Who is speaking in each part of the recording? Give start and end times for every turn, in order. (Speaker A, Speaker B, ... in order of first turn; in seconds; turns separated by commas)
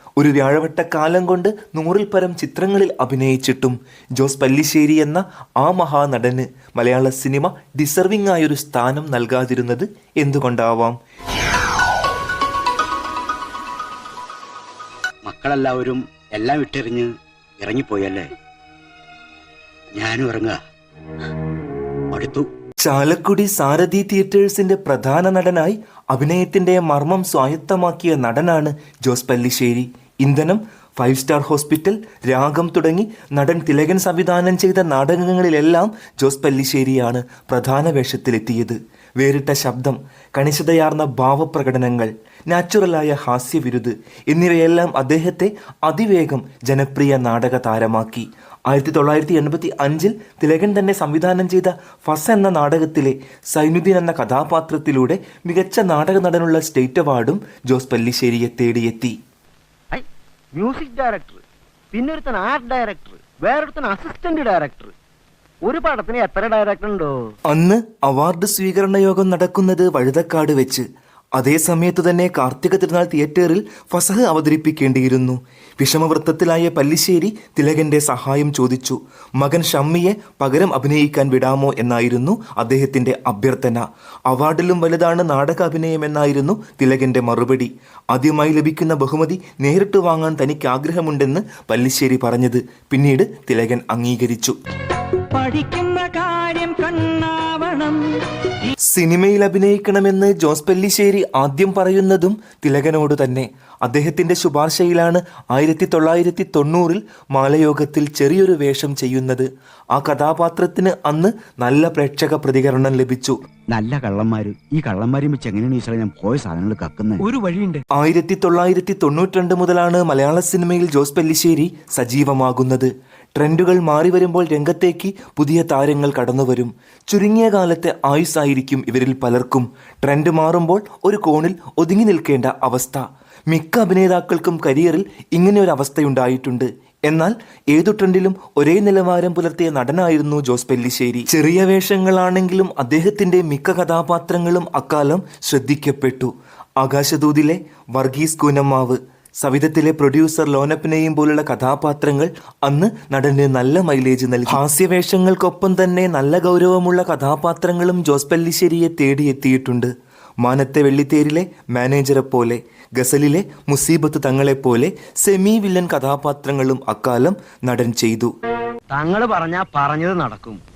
Speaker A: 0.2-11.0, Speaker B: 15.2-18.3, Speaker B: 19.9-20.6, Speaker B: 22.1-22.5, Speaker A: 22.8-59.1, Speaker C: 59.9-64.9, Speaker C: 65.6-67.1, Speaker A: 67.5-94.6, Speaker D: 95.1-98.7, Speaker A: 98.9-113.4, Speaker B: 113.7-117.3, Speaker D: 117.2-117.8, Speaker A: 118.0-159.9, Speaker A: 160.4-168.3, Speaker C: 168.9-170.6